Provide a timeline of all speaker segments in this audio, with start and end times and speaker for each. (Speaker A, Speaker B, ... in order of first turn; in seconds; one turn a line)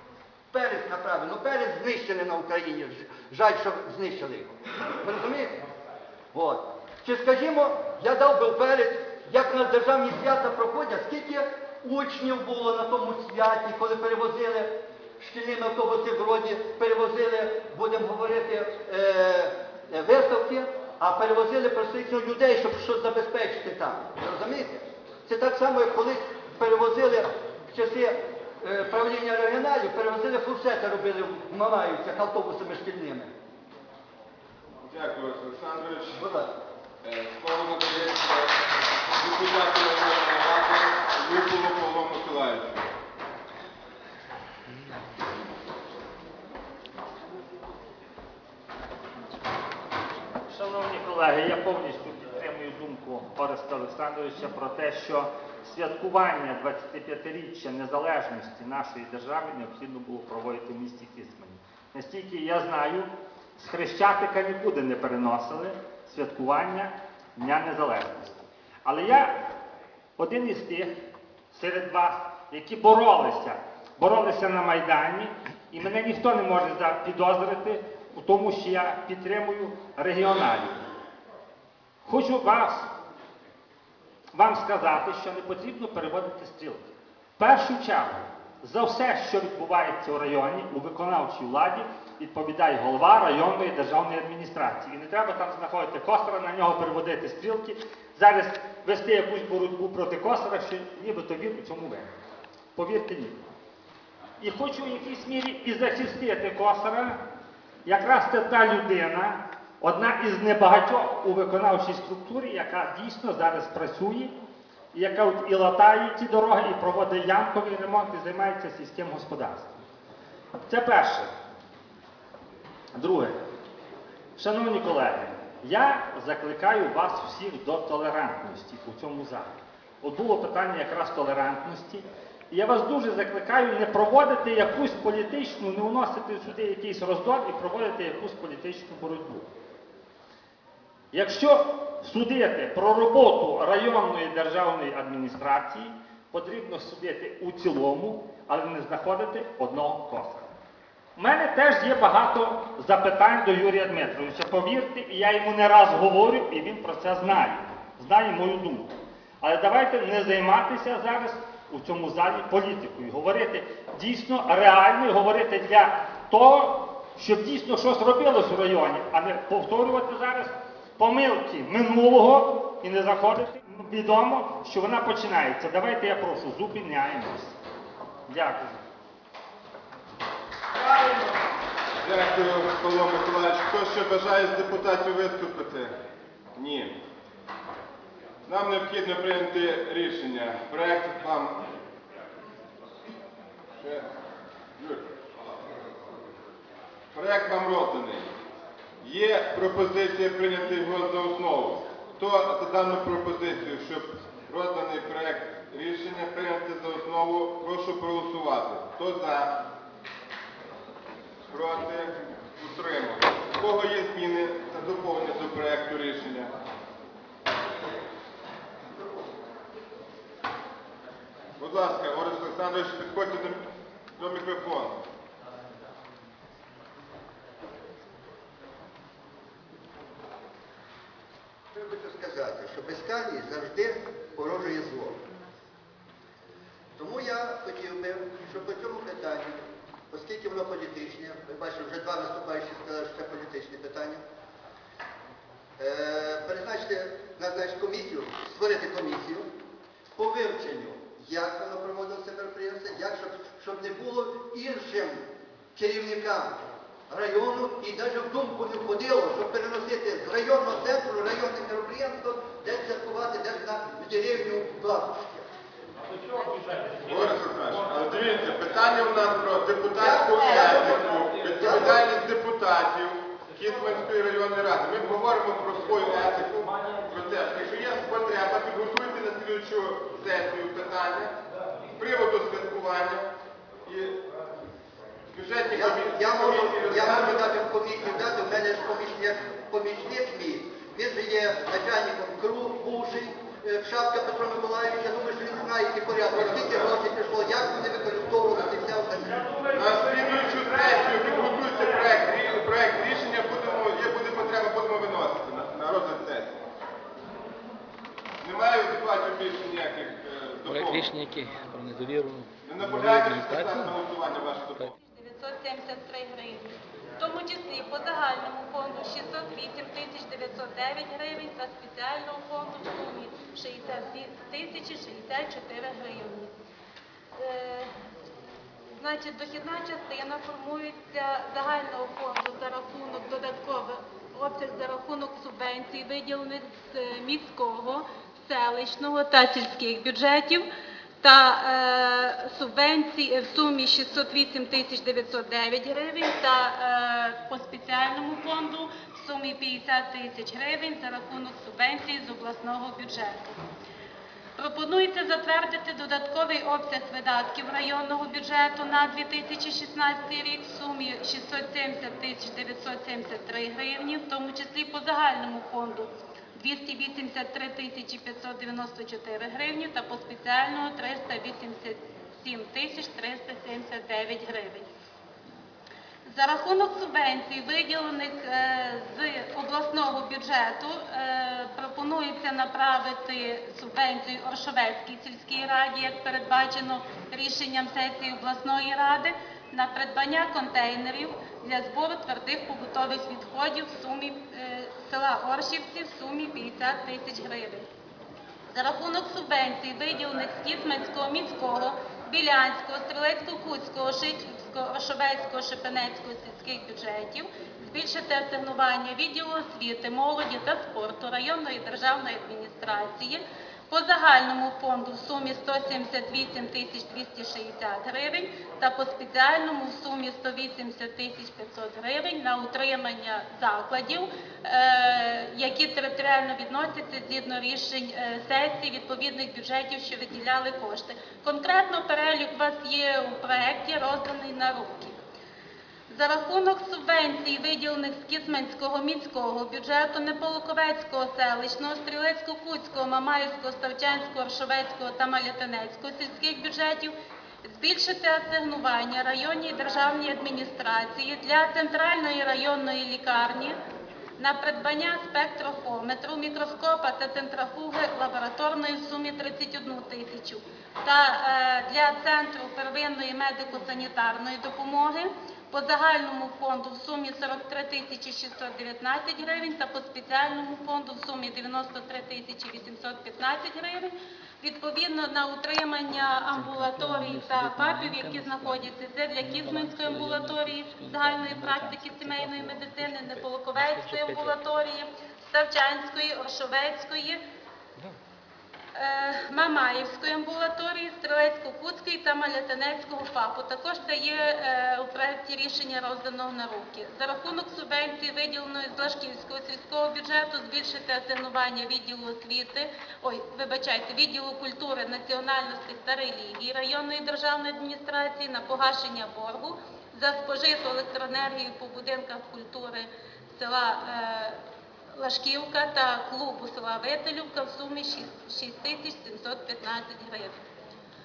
Speaker A: 0.5-5.6
Speaker A: 6.3-33.3
Speaker B: 34.9-36.2
Speaker A: 36.2-36.5
Speaker B: 37.0-42.9
Speaker C: 50.5-69.4
Speaker C: 70.2-70.9
Speaker C: 71.5-80.7
Speaker C: 82.0-82.9
Speaker C: 84.3-86.8
Speaker C: 87.4-102.1
Speaker C: 102.8-103.4
Speaker C: 104.4-107.2
Speaker C: 107.8-114.3
Speaker C: 114.9-119.7
Speaker C: 120.7-121.3
Speaker C: 122.9-123.4
Speaker C: 124.3-139.5
Speaker C: 141.1-150.5
Speaker C: 151.2-177.6
Speaker C: 178.3-178.8
Speaker B: 182.0-185.9
Speaker B: 186.6-187.0
Speaker B: 188.4-191.7
Speaker B: 193.8-194.1
Speaker B: 194.8-195.1
Speaker B: 197.1-198.3
Speaker B: 199.0-209.7
Speaker B: 211.5-216.5
Speaker B: 221.6-223.6
Speaker B: 224.1-225.0
Speaker A: 231.7-235.2
Speaker A: 237.0-244.2
Speaker A: 245.8-249.5
Speaker A: 250.1-265.5
Speaker B: 267.1-281.4
Speaker A: 270.0-271.0
Speaker A: 271.6-272.0
Speaker B: 281.9-283.3
Speaker B: 283.8-284.2
Speaker B: 285.3-287.5
Speaker A: 285.7-299.4
Speaker B: 296.3-296.9
Speaker C: 299.4-302.1
Speaker B: 299.7-306.6
Speaker B: 308.4-311.1
Speaker D: 310.6-313.9
Speaker B: 312.6-314.9
Speaker E: 315.0-326.5
Speaker E: 327.4-327.9
Speaker E: 328.9-340.6
Speaker E: 341.2-353.5
Speaker E: 354.6-374.9
Speaker E: 376.2-397.9
Speaker E: 398.7-435.2
Speaker E: 436.1-453.8
Speaker E: 454.4-487.4
Speaker D: 476.5-484.5
Speaker E: 488.9-514.6
Speaker E: 515.1-520.5